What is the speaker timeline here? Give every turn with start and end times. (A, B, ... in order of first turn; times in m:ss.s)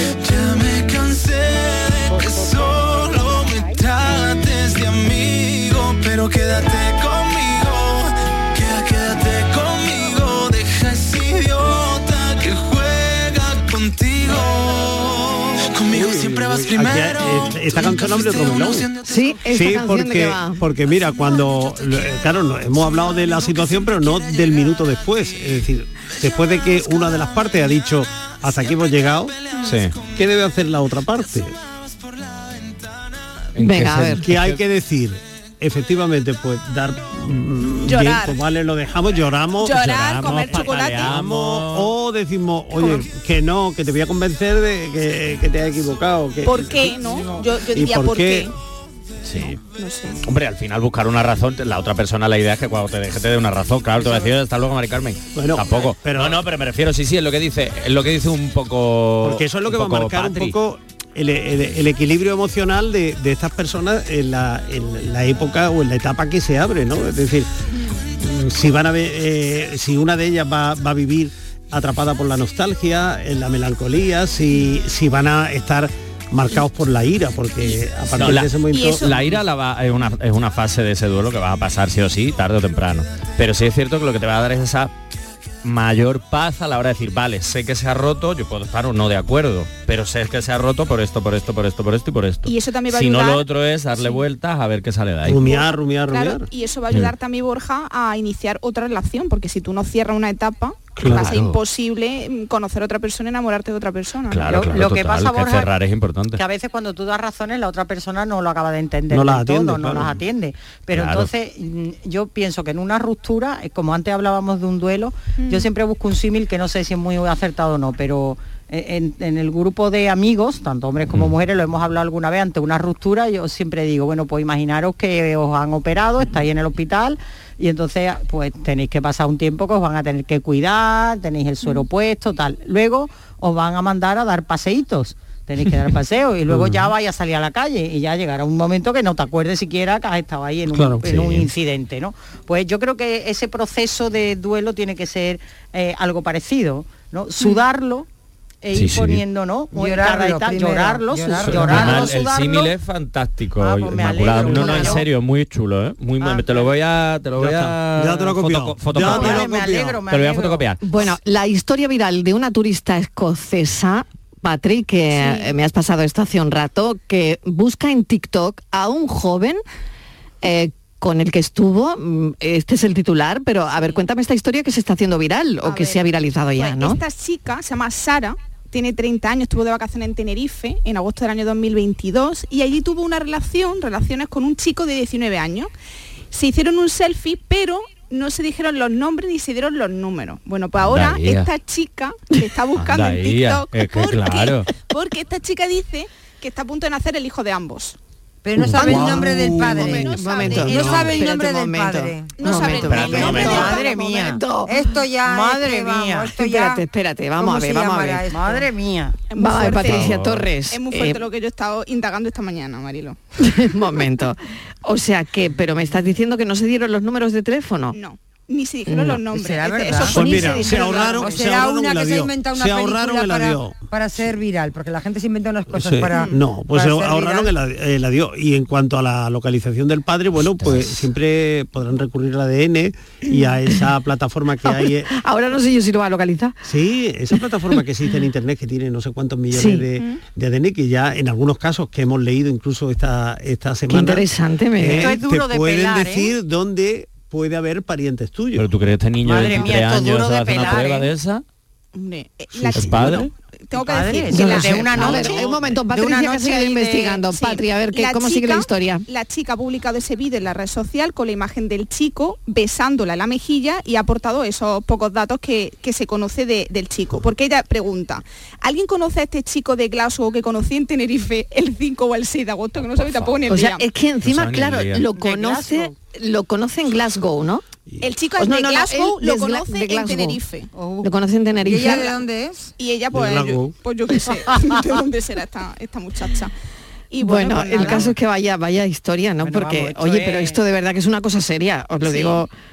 0:00.2-0:18.9 A
0:15.9-0:18.9 B
0:19.0-0:20.6 C
0:19.5-0:29.4 B
0:29.6-0:30.0 D
0:30.1-0:31.6 B
0:33.6-0:34.6 D
0:33.6-0:34.2 C
0:34.2-0:48.5 B
0:37.9-0:38.4 E
0:39.6-0:41.1 E
0:40.2-0:41.9 D
0:46.4-0:48.5 E
0:49.2-0:49.6 D
0:49.4-0:50.3 E
0:50.2-1:00.6 D
0:55.4-0:56.4 B
0:59.2-1:07.5 B
1:08.2-1:19.2 B
1:18.2-1:24.9 D
1:18.7-1:19.1 E
1:25.6-1:35.5 D
1:32.4-1:34.2 E
1:35.2-1:36.5 B
1:35.4-1:44.6 E
1:41.0-1:41.6 D
1:41.0-1:41.4 B
1:44.3-1:46.4 D
1:44.5-1:45.7 F
1:46.3-2:28.1 F
1:49.1-1:50.2 B
1:50.9-1:51.3 D
1:55.4-1:55.7 E
2:16.5-2:16.9 B
2:20.7-2:21.5 B
2:28.6-2:32.7 F
2:28.7-2:29.2 D
2:29.7-2:32.1 G
2:31.4-2:39.5 D
2:33.6-2:35.1 F
2:34.5-2:34.8 C
2:36.2-2:36.7 F
2:37.4-2:40.0 B
2:39.0-2:40.8 F
2:39.0-2:39.3 C
2:40.1-2:40.8 D
2:40.8-2:49.6 C
2:45.1-2:45.5 E
2:50.4-2:57.0 C
2:53.8-2:54.0 E
2:55.6-3:05.7 E
3:06.3-3:18.0 E
3:10.8-3:11.5 D
3:12.8-3:14.7 D
3:18.4-3:24.1 G
3:18.6-3:20.0 B
3:18.7-3:24.9 C
3:19.6-3:21.3 E
3:20.6-3:21.1 B
3:22.4-3:23.9 E
3:22.7-3:23.8 D
3:23.5-3:24.4 F
3:24.7-3:26.8 G
3:25.2-3:26.3 F
3:26.3-3:28.2 C
3:27.4-3:28.7 G
3:28.3-3:29.2 F
3:29.3-3:30.2 E
3:29.4-3:31.2 C
3:29.8-3:30.5 D
3:30.7-3:33.2 E
3:33.4-3:38.0 C
3:37.9-3:41.3 E
3:38.9-3:39.2 C
3:39.3-3:47.5 G
3:39.7-3:40.1 F
3:40.1-3:41.2 C
3:40.1-3:43.8 B
3:45.7-3:55.1 B
3:46.1-3:46.4 E
3:50.6-3:50.9 D
3:53.3-3:53.8 C
3:54.6-3:56.6 C
3:56.6-4:04.3 B
3:57.3-3:57.8 C
3:59.5-3:59.8 C
4:03.9-4:05.2 C
4:04.8-4:08.7 B
4:04.9-4:06.4 F
4:08.6-4:11.4 D
4:09.2-4:11.1 F
4:12.0-4:15.5 E
4:12.6-4:13.3 D
4:12.8-4:13.3 B
4:13.7-4:17.2 F
4:14.3-4:19.0 C
4:17.3-4:33.9 E
4:32.8-4:33.5 D
4:33.5-4:37.6 C
4:34.2-4:35.1 D
4:35.1-4:35.9 F
4:38.0-4:40.7 E
4:38.4-4:40.4 C
4:40.7-4:41.1 F
4:41.0-4:42.1 C
4:41.6-4:42.7 G
4:42.8-4:46.5 E
4:43.1-4:43.7 B
4:47.1-4:48.1 E
4:47.2-4:52.5 C
4:47.5-4:48.0 F
4:49.4-4:50.6 F
4:52.0-4:52.4 E